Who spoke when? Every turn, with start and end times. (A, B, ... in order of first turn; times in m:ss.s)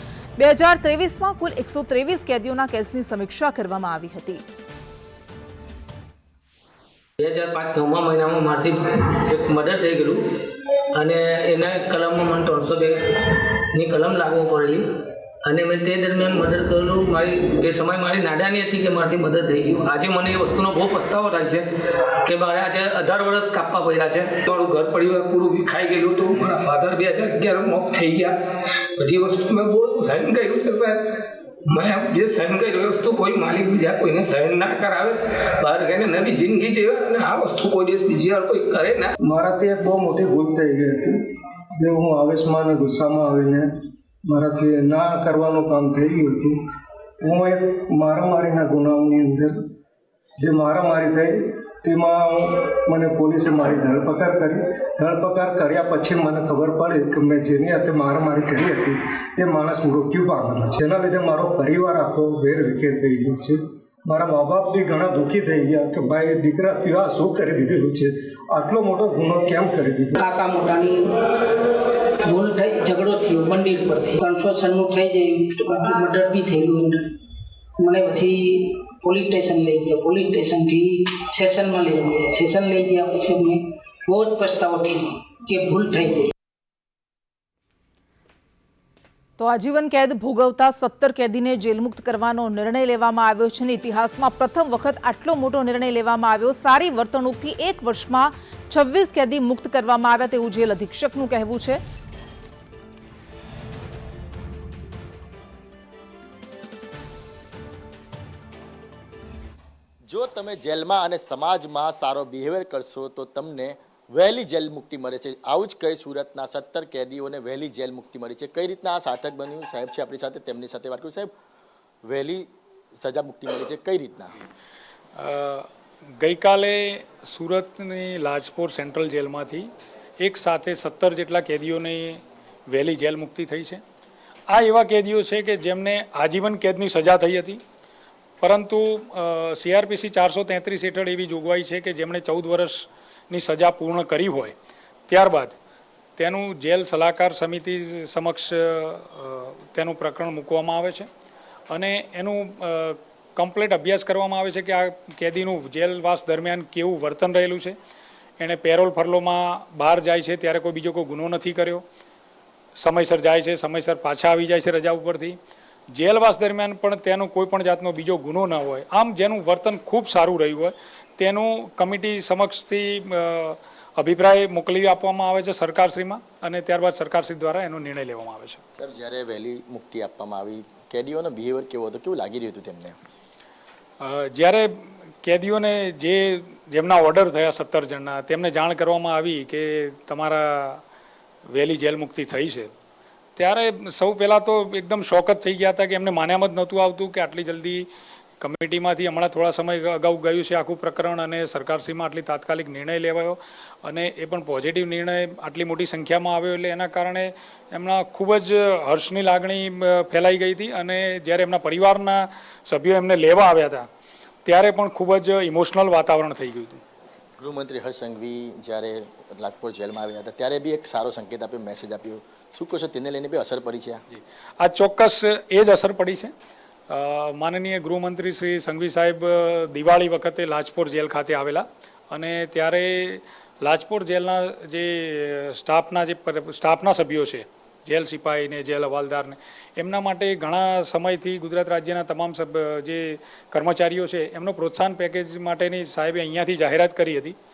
0:00.4-0:04.4 A
0:07.2-0:10.2 B
0:10.9-0:13.0 B
0:13.7-0:14.8 B
0:15.4-0:21.7 B
0:22.2-0:28.4 B
0:29.0-0:39.1 B
0:39.2-0:41.2 C
0:41.8-0:43.7 C
0:44.2-0:46.6 C
0:47.2-0:49.6 C
0:50.4-1:10.2 C
1:10.2-1:11.1 D
1:12.2-1:17.0 D
1:17.8-1:26.3 D
1:29.4-1:41.8 A
1:50.1-2:01.3 E
2:02.0-2:04.3 E
2:05.2-2:05.7 F
2:06.2-2:09.7 F
2:10.2-2:13.8 F
2:14.5-2:17.6 F
2:18.4-2:24.5 F
2:25.1-2:25.5 F
2:26.2-2:31.1 F
2:31.7-2:37.8 F
2:38.4-2:41.8 F
2:42.8-2:45.4 F
2:45.9-2:58.6 F
2:58.8-3:03.0 E
3:04.0-3:04.7 F
3:05.2-3:10.8 F
3:11.5-3:12.7 F
3:13.4-3:17.9 F
3:18.4-3:33.8 F
3:34.4-3:36.8 F
3:37.4-3:44.0 E
3:44.1-3:46.3 F
3:46.9-4:07.4 F